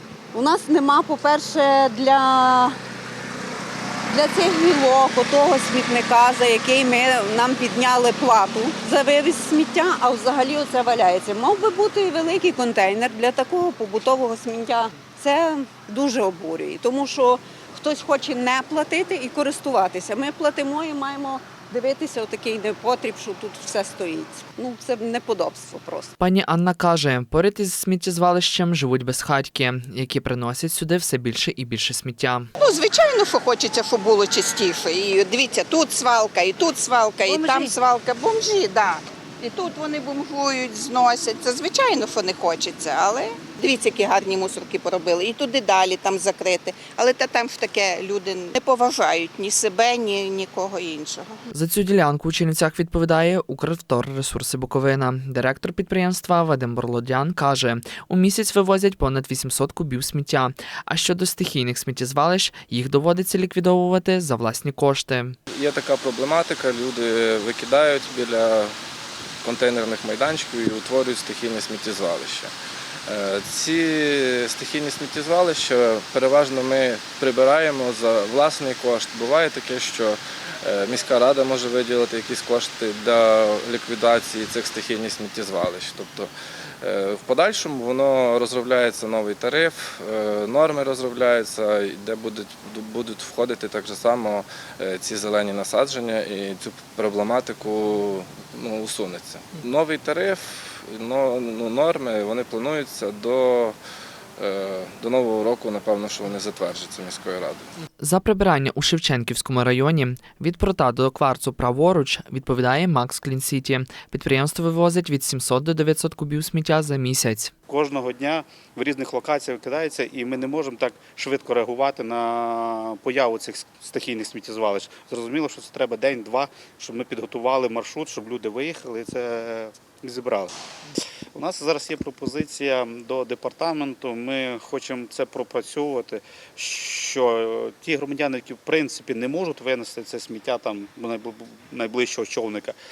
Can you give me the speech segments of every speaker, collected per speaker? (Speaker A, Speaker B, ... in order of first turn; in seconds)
Speaker A: 0.3-2.8, 4.1-26.1
Speaker B: 26.2-32.5, 51.5-65.3, 108.0-117.5
Speaker C: 32.6-51.3
Speaker D: 65.5-68.7, 69.4-72.5, 73.1-86.3, 86.8-103.8, 104.4-107.7
Speaker E: 117.7-130.5, 131.3-142.8